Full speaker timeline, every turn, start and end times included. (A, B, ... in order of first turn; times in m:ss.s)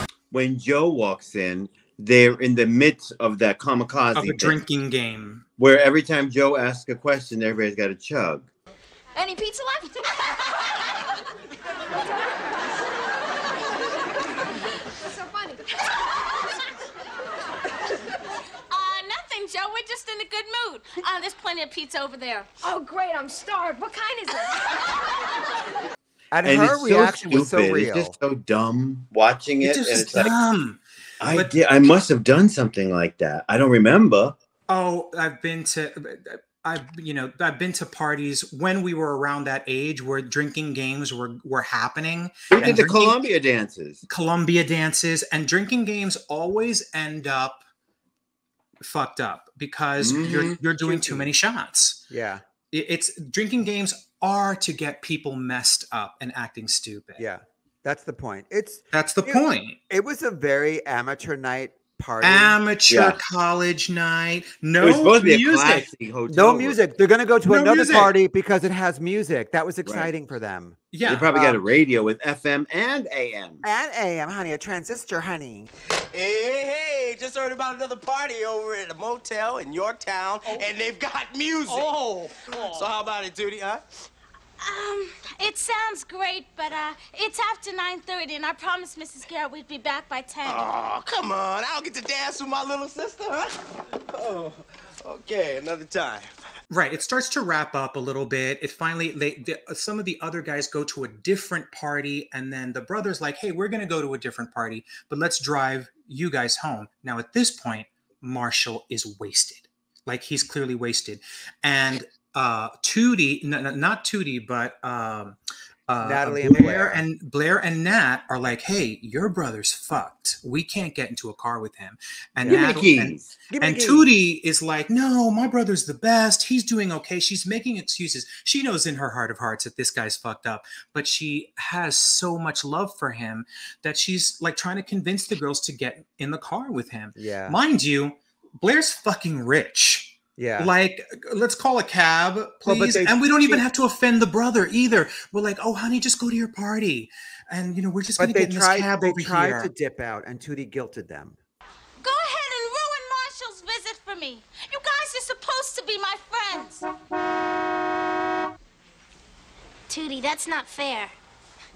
0:00.3-0:04.5 A
0:04.1-0:05.4 B
0:05.6-0:08.5 A
0:09.2-0:10.4 C
0:15.0-0:15.6 C
0:18.7-0:22.5 D
0:22.6-0:24.8 C
0:26.3-0:28.1 E
0:26.4-0:30.3 A
0:29.6-0:31.5 B
0:31.2-0:34.4 A
0:34.7-0:43.2 B
0:42.5-0:44.0 A
0:44.1-0:47.6 B
0:48.8-0:52.0 B
0:50.0-0:50.6 A
0:50.8-0:51.3 E
0:52.1-0:52.4 E
0:52.7-0:57.2 B
0:57.2-1:02.6 E
0:58.9-0:59.8 B
1:02.2-1:05.9 B
1:02.9-1:03.2 A
1:04.8-1:06.8 A
1:06.3-1:10.8 E
1:07.5-1:08.1 B
1:09.8-1:10.1 A
1:10.9-1:11.3 B
1:11.0-1:13.6 A
1:11.3-1:11.6 E
1:13.6-1:15.7 E
1:16.1-1:23.8 F
1:24.6-1:30.7 D
1:30.4-1:36.4 F
1:36.7-1:55.4 B
1:55.9-2:29.7 B
1:56.0-1:57.0 E
2:02.4-2:03.3 A
2:03.5-2:04.1 E
2:17.2-2:17.6 E
2:20.4-2:20.7 E
2:22.6-2:23.6 E
2:28.2-2:31.4 E
2:32.0-2:36.8 D
2:39.9-2:41.1 D